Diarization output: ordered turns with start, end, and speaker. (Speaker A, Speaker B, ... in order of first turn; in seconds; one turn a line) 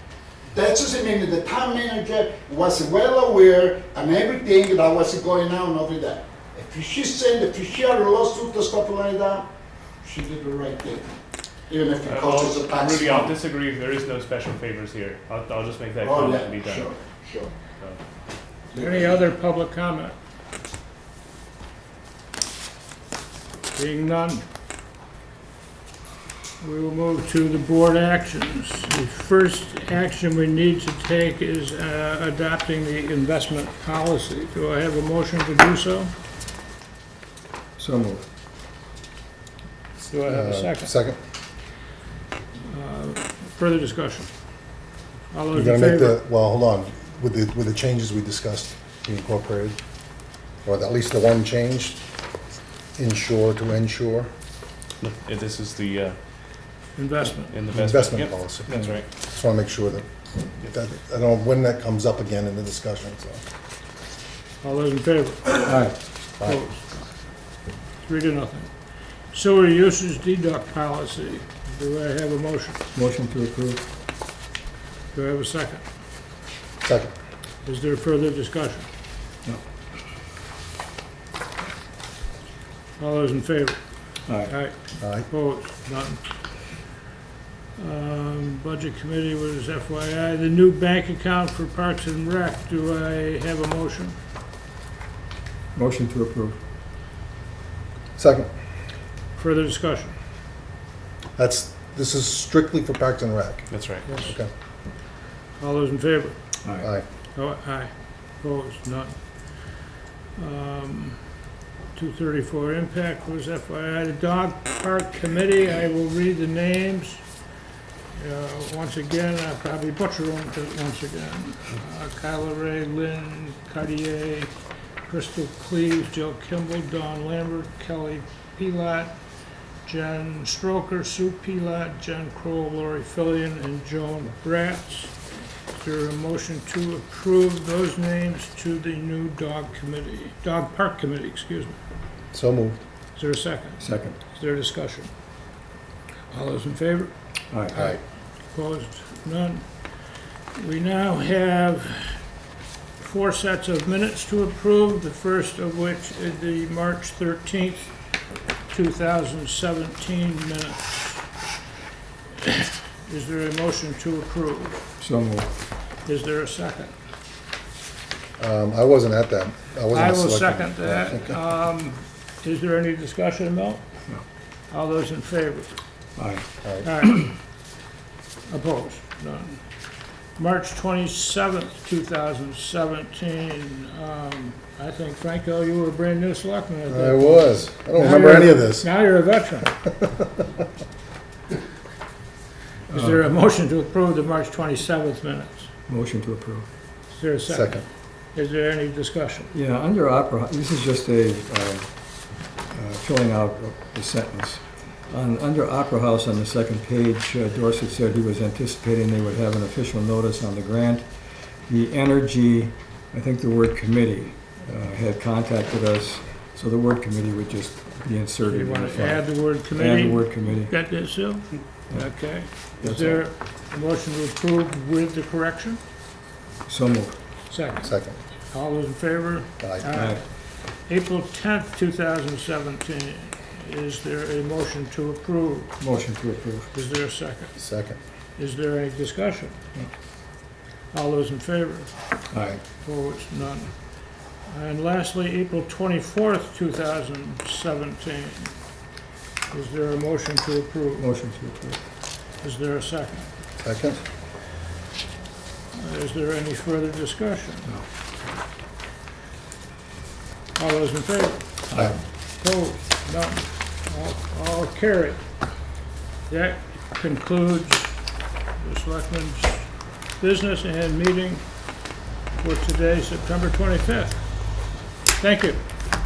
Speaker A: 0.5-9.5
Speaker A: 10.0-11.1
Speaker A: 11.7-13.3
Speaker B: 12.0-16.9
Speaker A: 16.0-17.5
Speaker A: 18.7-19.2
Speaker C: 18.8-20.1
Speaker C: 23.7-24.4
Speaker C: 26.6-36.1
Speaker D: 37.8-38.2
Speaker C: 40.0-40.9
Speaker E: 40.2-41.2
Speaker C: 42.7-44.3
Speaker C: 45.3-46.2
Speaker E: 45.5-49.8
Speaker E: 50.6-52.0
Speaker E: 53.0-54.3
Speaker B: 55.0-56.2
Speaker C: 57.0-57.7
Speaker B: 57.5-59.1
Speaker E: 57.7-60.1
Speaker E: 60.6-63.4
Speaker C: 64.6-65.8
Speaker D: 65.6-66.0
Speaker C: 66.4-67.1
Speaker C: 68.0-68.7
Speaker C: 69.3-72.8
Speaker D: 72.9-73.9
Speaker C: 75.1-75.8
Speaker E: 76.8-77.1
Speaker C: 77.7-78.9
Speaker C: 83.0-83.8
Speaker D: 84.3-84.5
Speaker C: 84.5-84.7
Speaker E: 85.0-85.3
Speaker C: 85.3-86.2
Speaker C: 87.8-94.2
Speaker D: 95.8-96.6
Speaker E: 98.2-98.5
Speaker C: 99.4-100.2
Speaker E: 101.4-104.5
Speaker B: 103.7-104.1
Speaker C: 104.1-104.3
Speaker C: 105.6-106.4
Speaker E: 106.8-107.0
Speaker C: 107.4-109.2
Speaker C: 110.4-111.2
Speaker C: 112.0-117.2
Speaker C: 118.2-124.5
Speaker C: 125.1-129.2
Speaker C: 129.8-135.1
Speaker C: 135.7-141.8
Speaker E: 142.3-142.8
Speaker C: 143.2-145.1
Speaker D: 143.8-144.2
Speaker C: 146.3-147.1
Speaker D: 147.5-147.8
Speaker C: 148.5-149.7
Speaker C: 150.6-152.2
Speaker C: 153.0-157.9
Speaker C: 158.7-161.3
Speaker C: 162.4-164.8
Speaker D: 165.0-165.5
Speaker C: 166.1-166.9
Speaker E: 168.4-171.4
Speaker C: 169.9-173.8
Speaker C: 174.7-175.8
Speaker D: 176.2-176.5
Speaker E: 176.6-176.9
Speaker C: 176.8-177.4
Speaker C: 178.5-179.6
Speaker C: 180.4-189.7
Speaker E: 186.9-188.9
Speaker D: 192.9-193.2
Speaker C: 192.9-195.7
Speaker D: 195.9-196.7
Speaker C: 197.1-199.5
Speaker E: 197.5-197.8
Speaker D: 199.5-201.9
Speaker D: 202.7-211.1
Speaker D: 211.7-220.7
Speaker C: 218.5-225.8
Speaker D: 222.8-223.2
Speaker D: 226.7-227.2
Speaker C: 227.5-227.9
Speaker E: 227.8-228.2
Speaker C: 228.5-230.2
Speaker E: 229.6-229.9
Speaker D: 229.9-230.2
Speaker C: 230.9-235.8
Speaker D: 235.8-236.7
Speaker C: 236.7-237.5
Speaker E: 237.6-238.0
Speaker C: 238.4-239.6
Speaker C: 240.9-241.9
Speaker D: 242.3-242.6
Speaker C: 242.8-243.7
Speaker C: 244.5-248.5
Speaker C: 249.5-251.0
Speaker D: 251.0-251.8
Speaker C: 252.4-253.3
Speaker E: 253.6-254.0
Speaker C: 255.7-257.8
Speaker C: 260.6-265.2
Speaker C: 266.3-267.9
Speaker C: 268.6-269.7
Speaker C: 270.2-271.4
Speaker C: 272.4-274.2
Speaker C: 275.2-275.6